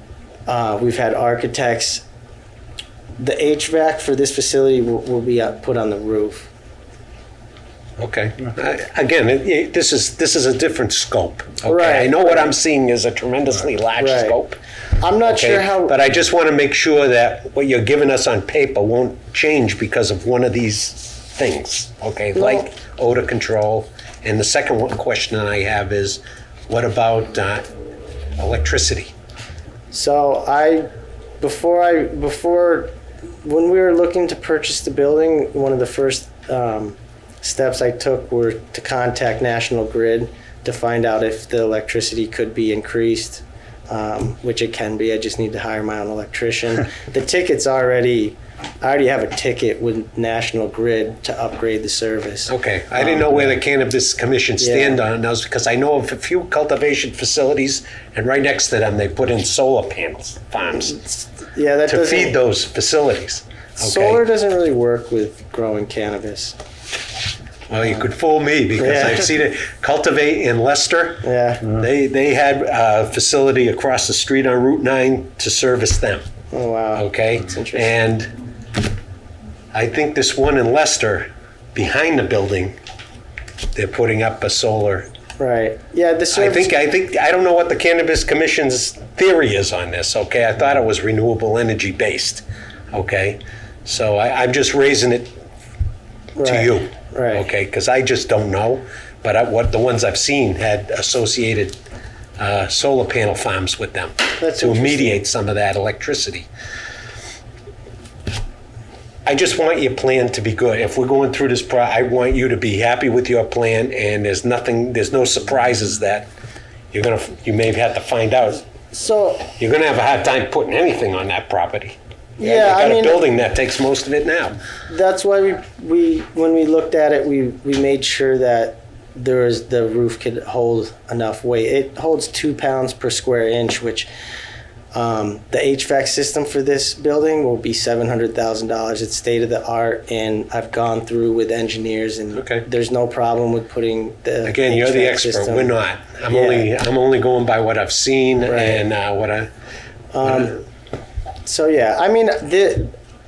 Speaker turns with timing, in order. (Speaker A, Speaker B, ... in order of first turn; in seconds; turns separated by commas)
Speaker A: 0.5-2.0, Speaker A: 3.2-6.5, Speaker B: 8.0-14.6, Speaker A: 11.6-12.5, Speaker A: 14.0-14.4, Speaker A: 15.0-16.0, Speaker B: 15.2-27.7, Speaker A: 22.4-22.7, Speaker B: 28.4-29.1, Speaker A: 29.9-30.9, Speaker A: 31.4-32.9, Speaker A: 33.4-53.2, Speaker B: 52.5-61.0, Speaker A: 54.6-55.0, Speaker A: 60.8-62.4, Speaker B: 61.9-64.2, Speaker A: 63.8-66.6, Speaker B: 67.7-76.2, Speaker A: 68.8-69.3, Speaker A: 71.2-71.7, Speaker A: 76.5-78.0, Speaker B: 77.0-78.3, Speaker B: 79.7-82.8, Speaker B: 83.7-85.1, Speaker A: 85.4-86.8, Speaker B: 86.3-95.3, Speaker A: 96.4-97.5, Speaker B: 96.4-101.8, Speaker B: 102.4-106.5, Speaker A: 104.4-105.2, Speaker B: 109.3-116.3, Speaker B: 116.9-118.6, Speaker A: 118.9-119.5, Speaker B: 119.5-124.6, Speaker A: 122.4-123.2, Speaker A: 124.9-134.1, Speaker A: 134.9-145.8, Speaker B: 142.3-142.7, Speaker B: 144.4-149.5, Speaker A: 146.3-146.7, Speaker A: 148.5-148.8, Speaker A: 150.1-150.6, Speaker A: 151.4-152.9